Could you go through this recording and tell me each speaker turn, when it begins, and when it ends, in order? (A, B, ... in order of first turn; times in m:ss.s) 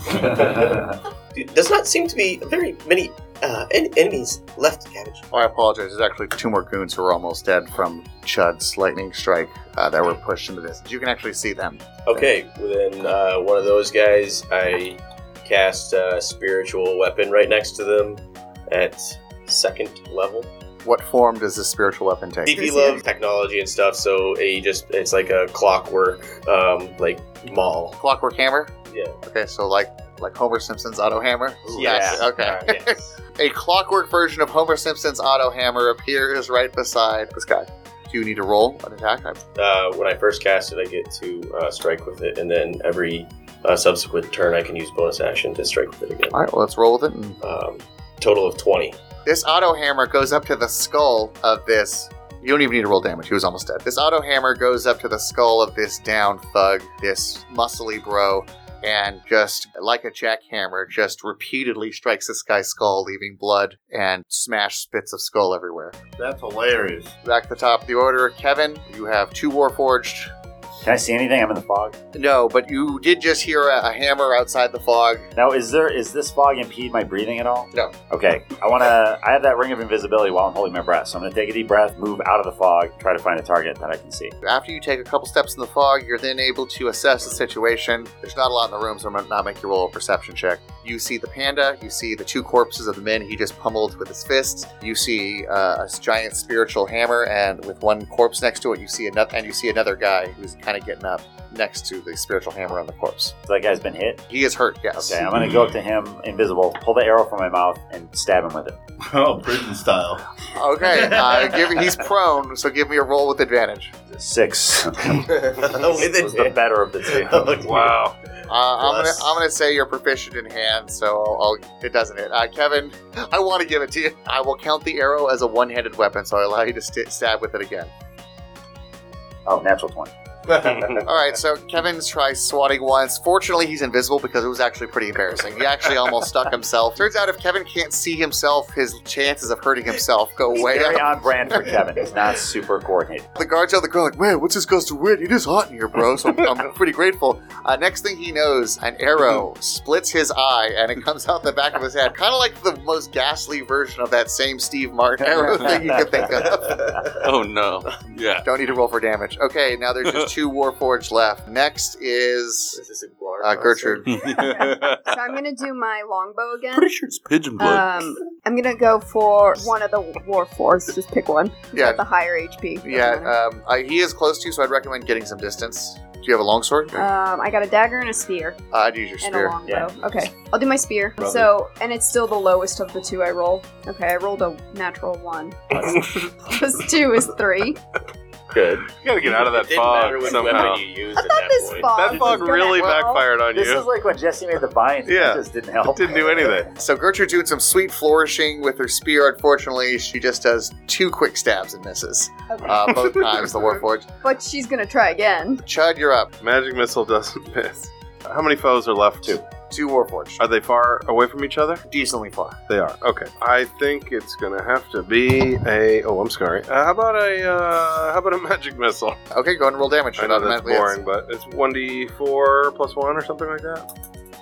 0:00.2-0:00.8 A
0:01.3-0:05.2 A
0:05.3-0:12.2 B
0:12.0-0:20.5 A
0:20.8-0:22.8 B
0:22.4-0:28.0 A
0:28.0-0:39.4 B
0:28.9-0:29.2 A
0:31.6-0:32.8 C
0:31.8-0:32.8 A
0:39.5-0:46.4 A
0:46.3-0:47.4 B
0:47.4-0:49.0 A
0:49.2-1:06.0 B
1:06.2-1:07.1 D
1:07.2-1:10.3 B
1:10.8-1:12.0 C
1:12.1-1:15.2 B
1:15.3-1:24.3 C
1:24.4-1:43.3 B
1:43.4-1:44.2 C
1:44.3-1:45.3 B
1:45.0-1:48.8 C
1:49.0-1:50.2 D
1:50.5-1:53.9 B
1:50.9-1:51.8 D
1:54.1-1:57.6 C
1:55.2-1:57.9 A
1:57.6-1:58.1 E
1:58.5-2:07.9 B
1:58.7-1:59.4 A
2:09.4-2:10.1 C
2:11.0-2:21.5 B
2:20.5-2:23.2 C
2:23.4-2:36.8 B
2:35.4-2:35.8 C
2:36.4-2:37.2 A
2:37.2-2:38.4 F
2:38.4-2:42.8 B
2:40.0-2:40.3 F
2:42.7-2:44.3 A
2:43.4-2:44.1 B
2:44.1-2:45.0 F
2:44.3-2:46.9 G
2:46.7-2:47.9 F
2:47.6-2:53.3 G
2:51.7-2:52.0 B
2:52.8-2:57.1 B
2:56.9-2:58.6 G
2:58.7-2:59.6 B
2:59.2-3:05.8 G
2:59.6-2:59.9 C
3:05.7-3:06.0 C
3:05.8-3:06.2 E
3:06.5-3:07.8 G
3:08.5-3:08.9 A
3:08.9-3:10.8 E
3:09.4-3:11.9 A
3:09.7-3:10.8 F
3:11.1-3:13.3 G
3:11.9-3:13.9 E
3:12.1-3:12.8 C
3:13.5-3:16.5 C
3:15.0-3:16.7 E
3:16.8-3:24.0 B
3:22.8-3:23.6 E
3:24.2-3:25.6 G
3:25.6-3:26.3 B
3:26.4-3:29.4 E
3:29.2-3:30.4 B
3:30.4-3:31.8 E
3:31.9-3:32.6 B
3:32.7-3:39.2 E
3:39.3-3:41.0 B
3:40.2-3:43.9 E